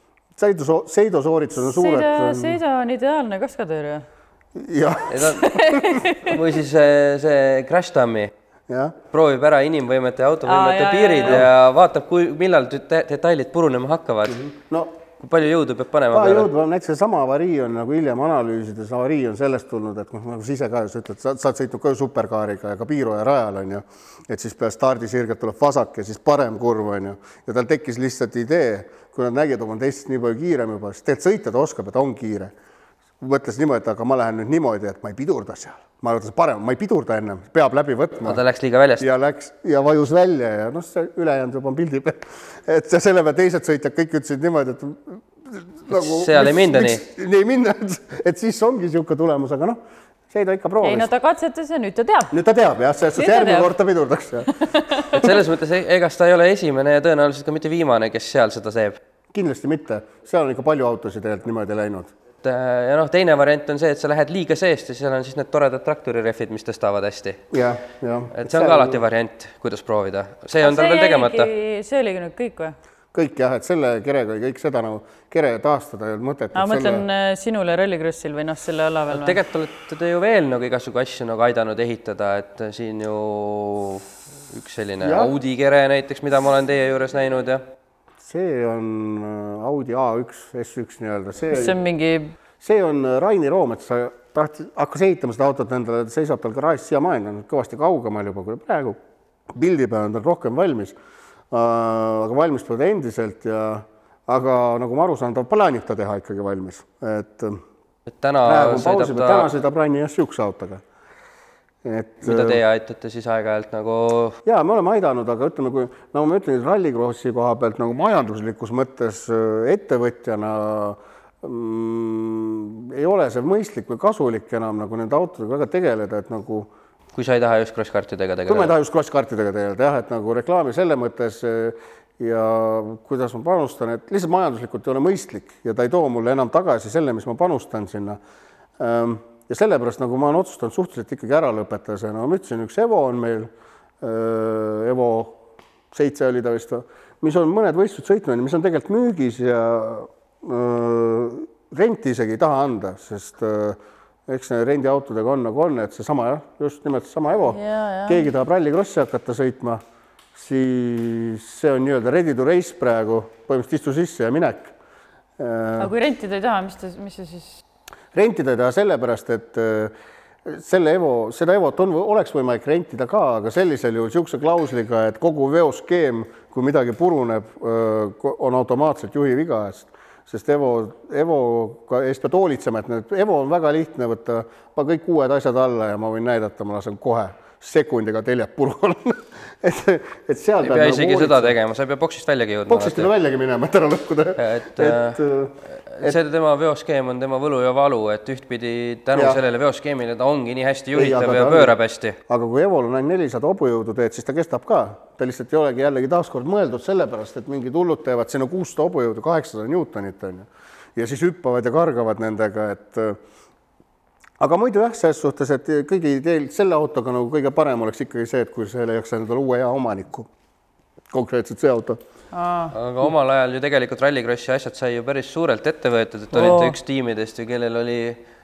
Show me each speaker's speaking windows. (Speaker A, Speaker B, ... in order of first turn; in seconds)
Speaker A: 0.3-2.6, 4.5-6.0, 8.7-8.9, 14.4-14.9, 16.1-32.5, 33.2-38.4, 39.0-51.1, 52.3-55.4, 59.3-62.1, 67.5-69.0, 73.1-77.0, 85.0-85.3, 88.2-91.8, 92.6-99.0, 99.5-101.0, 101.5-107.6, 108.4-110.8, 111.8-112.6, 114.4-126.7, 128.5-138.2, 138.8-145.4, 145.9-159.8, 160.3-164.7, 165.4-165.9, 168.1-169.9, 170.4-191.6, 192.7-196.2, 199.1-199.4, 200.9-201.7, 202.3-213.2, 214.4-220.3, 221.1-222.0
Speaker B: 1.6-4.0, 5.4-6.4, 10.4-11.4, 50.8-52.3, 53.1-53.7, 54.5-55.2, 70.6-72.8, 76.5-79.4, 91.5-92.3, 157.5-158.3, 165.8-167.6, 222.3-222.7, 226.3-226.8
Speaker C: 5.1-5.4, 6.2-8.3, 9.1-14.4, 15.2-16.5, 38.2-39.1, 45.9-47.0, 55.1-59.0, 62.4-67.5, 68.3-71.5, 79.1-87.6, 108.2-109.5, 112.2-114.4, 127.1-128.7, 190.6-193.1, 194.4-195.2, 195.9-202.2, 222.7-228.2